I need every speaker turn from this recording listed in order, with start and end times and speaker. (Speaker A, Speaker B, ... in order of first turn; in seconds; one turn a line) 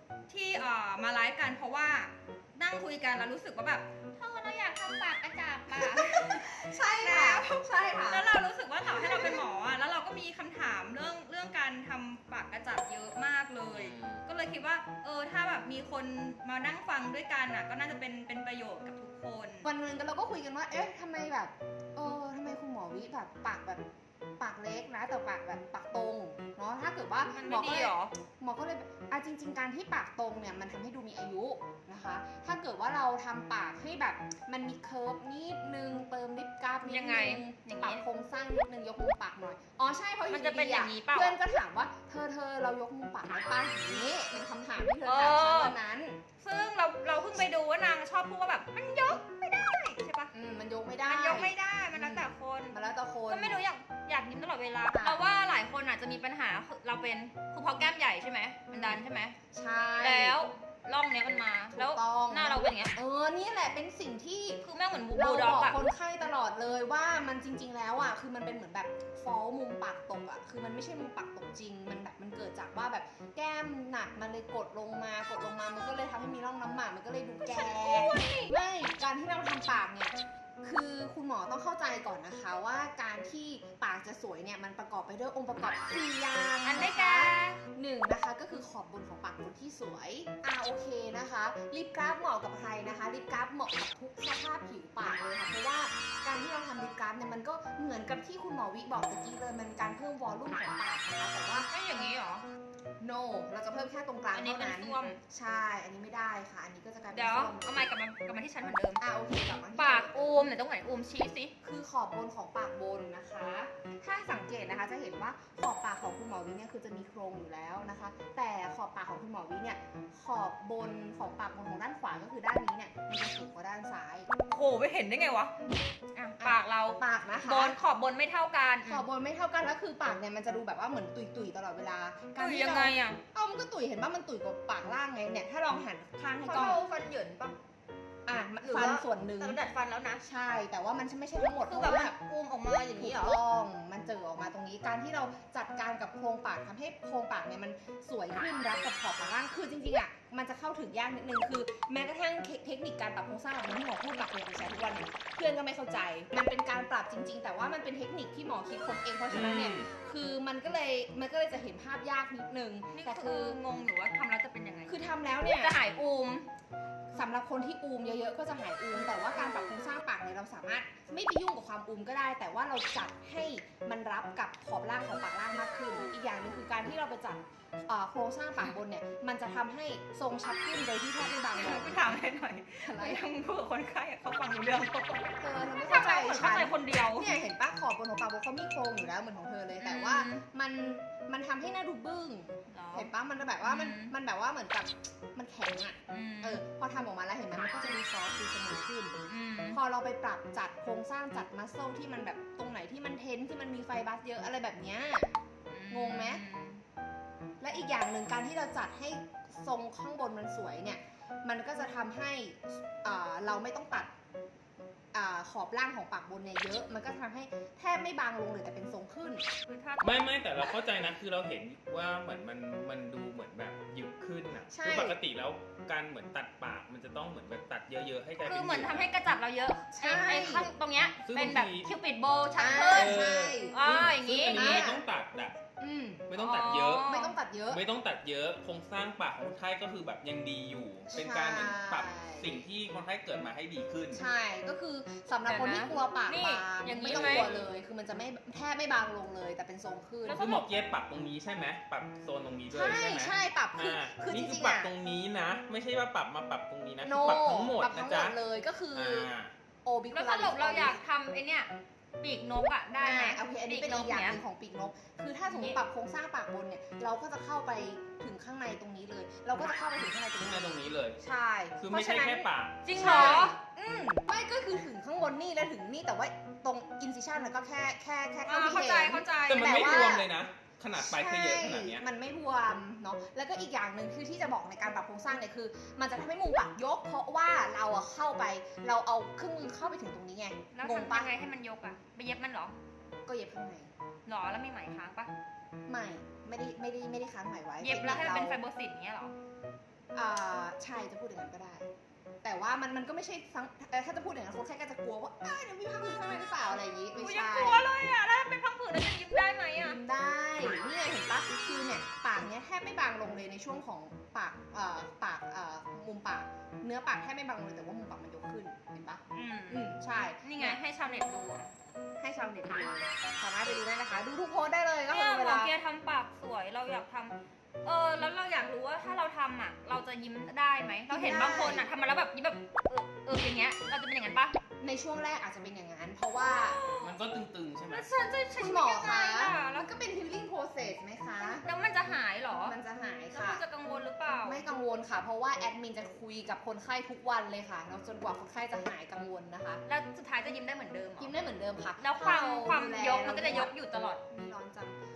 Speaker A: 0.3-19.7
Speaker B: 5.7-9.4
Speaker C: 13.7-14.2
Speaker B: 19.6-23.8
Speaker B: 24.4-46.2
Speaker A: 27.3-28.1
Speaker A: 36.9-38.0
Speaker A: 40.3-41.4
Speaker A: 45.0-45.8
Speaker A: 46.4-50.3
Speaker B: 50.3-53.6
Speaker A: 51.0-52.8
Speaker A: 53.3-59.4
Speaker B: 54.9-55.2
Speaker B: 58.7-59.0
Speaker B: 59.5-60.4
Speaker A: 60.0-62.9
Speaker B: 61.7-64.6
Speaker A: 64.6-65.9
Speaker B: 65.1-101.7
Speaker A: 77.4-78.5
Speaker A: 86.6-87.6
Speaker A: 101.5-102.5
Speaker B: 103.0-107.9
Speaker A: 104.3-105.2
Speaker A: 107.1-109.0
Speaker B: 109.0-110.5
Speaker A: 109.7-111.5
Speaker B: 111.6-124.3
Speaker A: 124.5-125.5
Speaker A: 126.1-129.1
Speaker B: 126.4-127.8
Speaker B: 128.8-136.8
Speaker A: 132.4-133.2
Speaker A: 136.4-137.6
Speaker B: 138.2-139.6
Speaker A: 138.6-140.2
Speaker B: 140.2-142.2
Speaker A: 141.6-143.4
Speaker B: 143.0-163.5
Speaker C: 159.3-159.9
Speaker A: 162.9-165.0
Speaker B: 164.8-165.7
Speaker A: 165.5-166.4
Speaker B: 167.1-182.2
Speaker A: 181.5-185.2
Speaker B: 182.8-183.3
Speaker B: 185.4-199.2
Speaker A: 185.8-187.3
Speaker A: 189.8-190.4
Speaker A: 192.7-193.1
Speaker A: 193.6-194.1
Speaker A: 196.1-196.6
Speaker A: 199.3-199.8
Speaker B: 199.7-205.3
Speaker A: 205.7-206.8
Speaker B: 205.9-206.4
Speaker B: 207.6-214.1
Speaker B: 215.1-219.4
Speaker A: 219.7-220.3
Speaker C: 220.0-229.1
Speaker B: 224.7-225.2
Speaker A: 228.4-234.8
Speaker B: 229.9-230.7
Speaker C: 231.2-231.9
Speaker B: 232.6-233.8
Speaker C: 232.9-235.6
Speaker B: 234.5-235.0
Speaker B: 235.8-236.3
Speaker C: 236.3-237.1
Speaker A: 236.4-237.3
Speaker B: 237.0-237.8
Speaker C: 237.7-244.2
Speaker B: 241.1-242.6
Speaker B: 244.1-250.5
Speaker A: 245.4-247.5
Speaker C: 247.1-247.7
Speaker A: 250.2-250.7
Speaker C: 250.2-258.4
Speaker B: 252.7-254.9
Speaker B: 257.0-259.3
Speaker C: 258.9-259.5
Speaker B: 259.8-261.0
Speaker A: 260.1-264.4
Speaker B: 263.0-280.3
Speaker A: 265.5-265.8
Speaker C: 270.4-271.2
Speaker C: 271.8-273.5
Speaker A: 272.8-273.6
Speaker A: 278.4-280.0
Speaker C: 279.4-282.0
Speaker B: 280.9-291.3
Speaker A: 290.7-292.8
Speaker B: 293.2-293.9
Speaker A: 294.2-295.3
Speaker B: 295.9-298.6
Speaker A: 297.8-299.3
Speaker B: 300.1-301.9
Speaker B: 302.4-307.8
Speaker A: 307.1-310.0
Speaker B: 309.8-320.8
Speaker A: 319.3-321.7
Speaker B: 322.2-325.7
Speaker A: 325.1-334.6
Speaker B: 331.1-331.9
Speaker B: 334.8-336.8
Speaker A: 336.3-337.2
Speaker C: 337.0-338.1
Speaker A: 337.9-339.9
Speaker B: 338.6-341.6
Speaker A: 341.4-342.8
Speaker B: 342.6-343.6
Speaker A: 343.3-344.6
Speaker B: 344.4-349.8
Speaker A: 349.9-351.3
Speaker B: 351.2-353.7
Speaker A: 352.0-354.2
Speaker B: 354.3-355.0